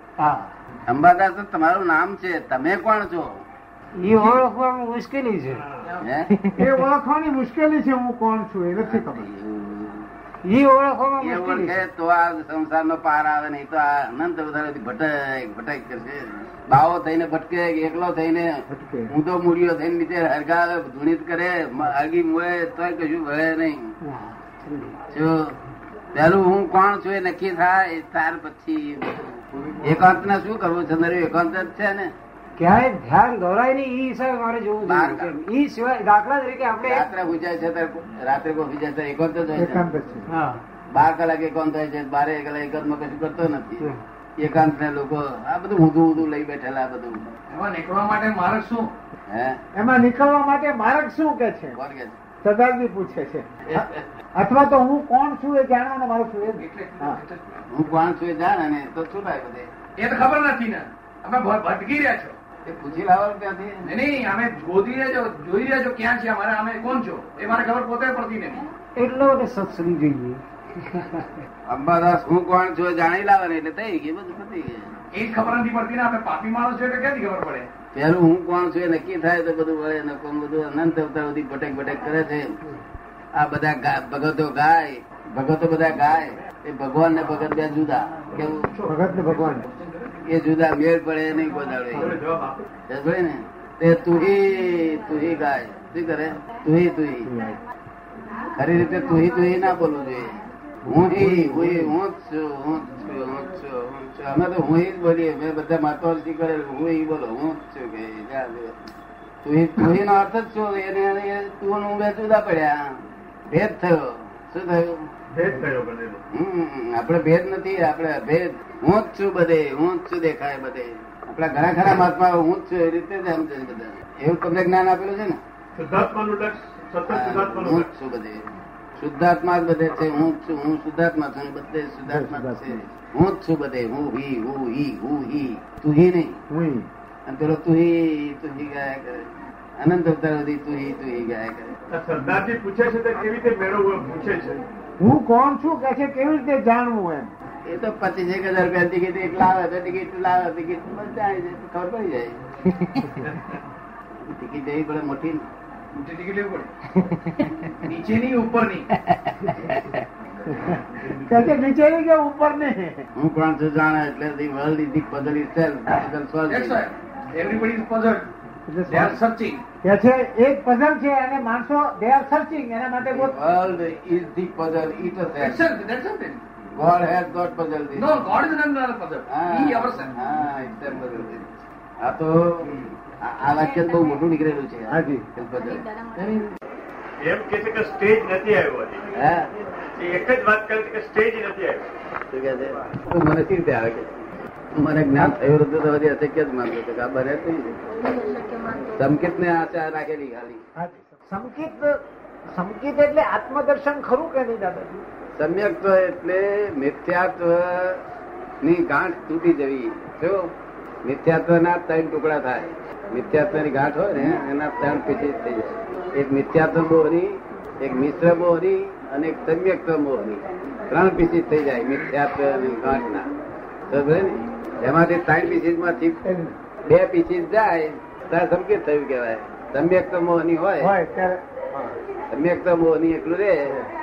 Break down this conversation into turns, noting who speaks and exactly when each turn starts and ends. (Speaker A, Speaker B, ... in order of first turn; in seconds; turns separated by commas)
Speaker A: 0.2-0.5, Speaker B: 0.9-3.3, Speaker A: 4.0-5.7, Speaker B: 6.0-6.3, Speaker C: 6.6-9.3, Speaker B: 8.8-10.1, Speaker A: 10.4-11.8, Speaker B: 11.2-23.9, Speaker C: 18.7-19.1, Speaker A: 24.0-25.0, Speaker B: 25.1-25.6, Speaker B: 26.1-32.1, Speaker A: 32.6-37.1, Speaker B: 34.8-35.3, Speaker B: 36.8-39.9, Speaker C: 39.5-40.3, Speaker A: 40.3-40.6, Speaker B: 40.9-47.3, Speaker D: 47.5-48.9, Speaker B: 49.3-49.6, Speaker C: 49.8-51.8, Speaker B: 51.8-52.2, Speaker C: 52.4-53.8, Speaker C: 54.4-57.2, Speaker D: 56.4-57.6, Speaker B: 57.7-59.7, Speaker D: 60.0-62.4, Speaker B: 62.6-63.9, Speaker D: 63.8-68.7, Speaker A: 69.0-71.4, Speaker B: 71.7-74.9, Speaker D: 75.1-77.7, Speaker B: 77.9-82.5, Speaker B: 83.3-88.7, Speaker D: 88.5-90.1, Speaker C: 88.9-89.7, Speaker B: 90.2-92.2, Speaker E: 91.9-92.7, Speaker B: 92.9-97.3, Speaker C: 97.3-97.6, Speaker B: 98.5-108.8, Speaker C: 100.9-101.9, Speaker B: 109.4-113.0, Speaker B: 113.5-115.0, Speaker E: 115.3-116.2, Speaker B: 116.3-125.4, Speaker E: 125.8-127.9, Speaker B: 127.1-136.4, Speaker C: 132.1-132.7, Speaker C: 136.5-136.9, Speaker B: 137.3-139.3, Speaker B: 139.8-141.7, Speaker E: 141.9-144.6, Speaker C: 145.0-147.3, Speaker B: 147.7-153.2, Speaker B: 154.3-155.4, Speaker D: 155.9-156.7, Speaker B: 157.0-157.8, Speaker D: 157.8-158.9, Speaker B: 159.0-160.0, Speaker C: 160.5-163.1, Speaker B: 163.2-166.8, Speaker D: 166.5-168.3, Speaker C: 168.7-169.2, Speaker D: 168.9-169.6, Speaker C: 169.8-173.3, Speaker B: 173.1-175.7, Speaker D: 175.4-176.4, Speaker B: 176.8-178.3, Speaker D: 177.9-180.1, Speaker B: 179.3-186.1, Speaker E: 187.2-189.0, Speaker B: 189.2-189.5, Speaker E: 190.0-191.9, Speaker B: 192.3-194.1, Speaker B: 194.8-200.6, Speaker C: 200.8-202.0, Speaker C: 202.5-205.0, Speaker B: 205.4-208.0, Speaker B: 208.6-210.5, Speaker B: 211.0-223.3, Speaker B: 223.9-226.2, Speaker C: 226.3-226.6, Speaker B: 226.8-230.9, Speaker C: 230.8-231.9, Speaker B: 232.3-233.8